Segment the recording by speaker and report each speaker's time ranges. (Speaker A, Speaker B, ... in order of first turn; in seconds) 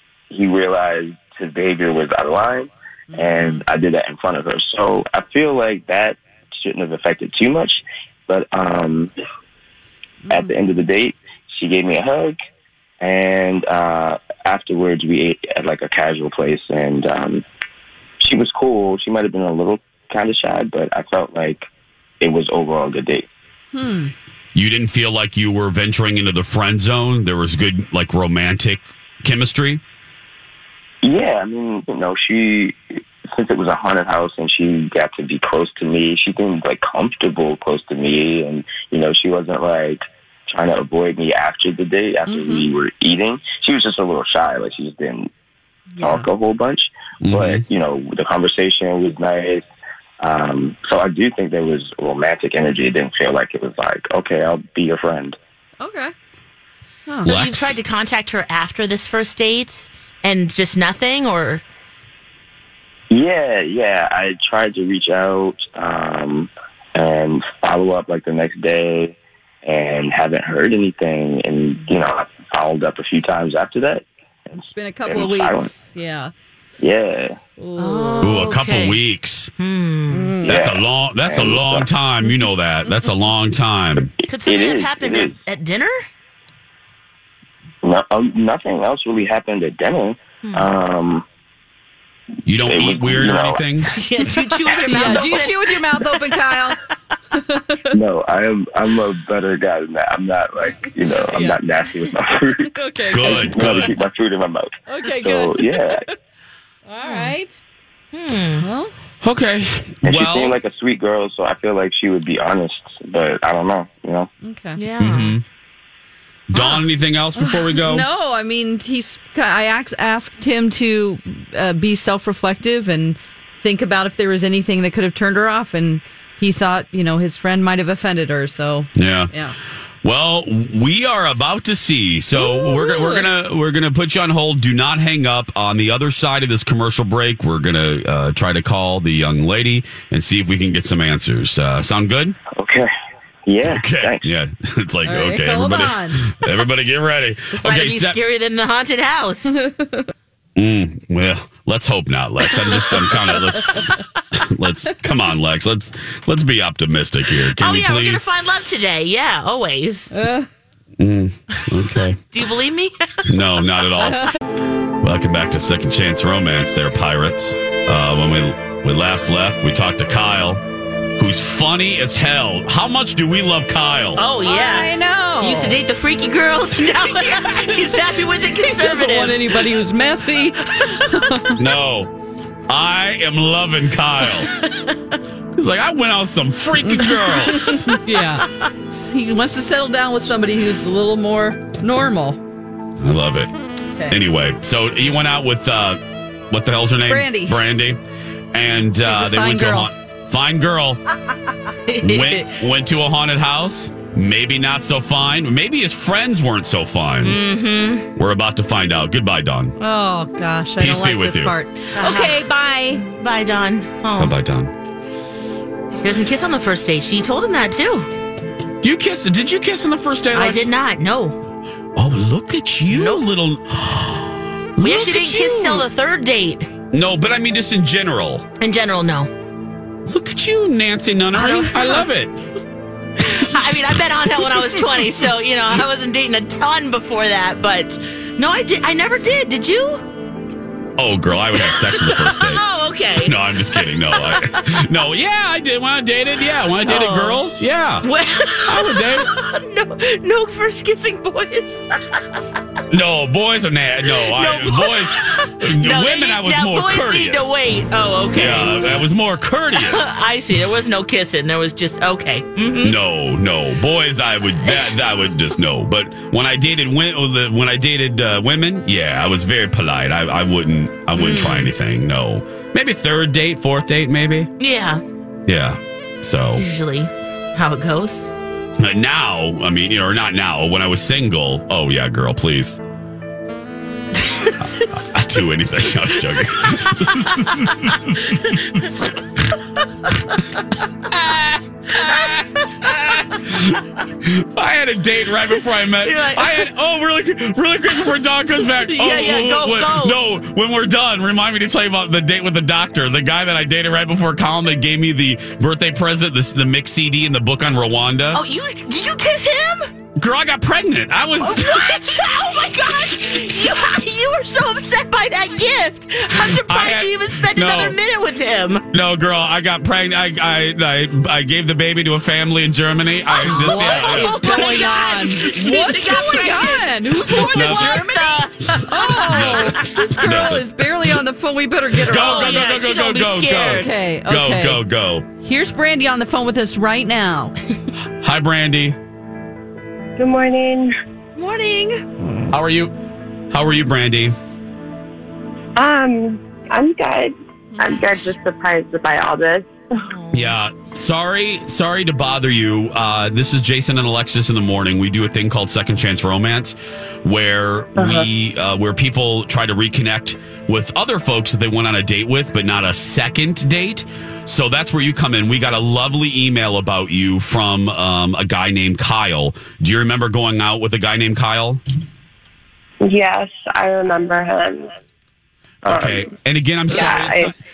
Speaker A: 0.3-9.1, 10.3-12.3, 13.0-17.4, 18.2-21.7, 22.2-23.3, 31.0-45.3, 46.0-49.6, 50.2-55.4, 63.1-75.7, 76.8-77.4, 80.4-81.9, 84.0-85.3, 87.8-91.2, 92.6-93.6, 94.7-95.4, 97.9-106.0, 110.0-114.3, 142.5-142.9, 143.4-144.3
Speaker B: 3.1-3.6, 10.2-10.6, 23.7-24.1, 42.3-42.7, 46.0-46.2, 55.8-56.1, 57.1-57.3, 74.5-76.3, 77.6-78.5, 80.1-80.6, 82.2-83.2, 94.8-96.8, 97.3-97.9, 101.3-102.1, 102.7-104.0, 104.9-106.1, 106.8-107.6, 108.6-108.9, 114.4-114.9, 116.5-129.6, 132.3-133.3, 145.0-146.2, 149.5-150.1, 153.3-153.9, 160.1-160.5, 174.4-175.8, 178.3-181.6, 186.8-192.4, 193.9-194.2, 197.0-197.6, 198.9-199.9, 209.8-213.1, 271.3-271.7, 323.4-332.6, 333.7-334.9, 335.4-337.6
Speaker C: 24.5-29.8, 47.2-47.6, 57.3-57.8, 78.2-79.5, 80.5-84.1, 92.5-93.9, 103.1-103.9, 109.2-110.5, 115.0-115.4, 116.5-118.1, 128.9-129.3, 130.0-142.4, 143.6-148.2, 150.6-158.4, 161.0-162.2, 163.3-164.2, 165.0-170.6, 171.2-174.3, 181.6-182.1, 182.7-184.5, 185.5-187.9, 193.0-193.5, 194.1-198.0, 198.5-201.0, 202.0-207.4, 208.1-209.8, 210.8-211.6, 214.2-214.7, 218.8-220.7, 221.9-225.9, 226.9-228.4, 230.1-232.6, 241.0-242.6, 243.2-248.1, 248.7-249.3, 252.9-257.8, 258.3-260.2, 262.8-274.5, 275.5-276.6, 278.8-282.8, 284.8-288.8, 291.4-308.4, 310.1-312.0, 316.3-318.0, 318.9-324.9, 325.5-325.9, 327.3-328.0, 329.1-330.6, 332.0-335.3, 338.2-338.9, 342.5-342.9, 343.5-344.4, 350.3-371.8, 375.9-377.5
Speaker D: 57.2-61.6, 77.8-79.0, 79.6-80.4, 84.2-86.0, 90.4-90.7, 93.9-96.7, 107.0-107.3, 108.1-108.7, 114.8-115.4, 147.5-149.6, 157.5-160.1, 162.3-163.3, 174.1-179.8, 184.3-184.9, 201.9-202.6, 207.2-208.1, 211.9-214.3, 216.0-218.1, 220.3-221.4, 222.9-223.3, 224.8-226.7, 228.6-229.3, 231.3-232.1, 233.2-240.1, 241.4-244.7, 246.8-247.5, 248.0-252.4, 254.1-259.0, 259.7-262.9, 264.7-265.0, 271.2-271.5, 274.6-275.0, 276.5-278.3, 284.2-285.0, 286.3-287.1, 288.2-288.6, 291.9-292.9, 295.9-296.6, 298.8-300.2, 308.3-309.9, 311.4-318.9, 323.3-330.3, 332.0-334.0, 341.4-342.1, 350.0-350.6
Speaker E: 340.2-340.9, 345.8-350.0, 358.0-358.2, 373.0-374.9, 375.8-376.2, 376.9-377.5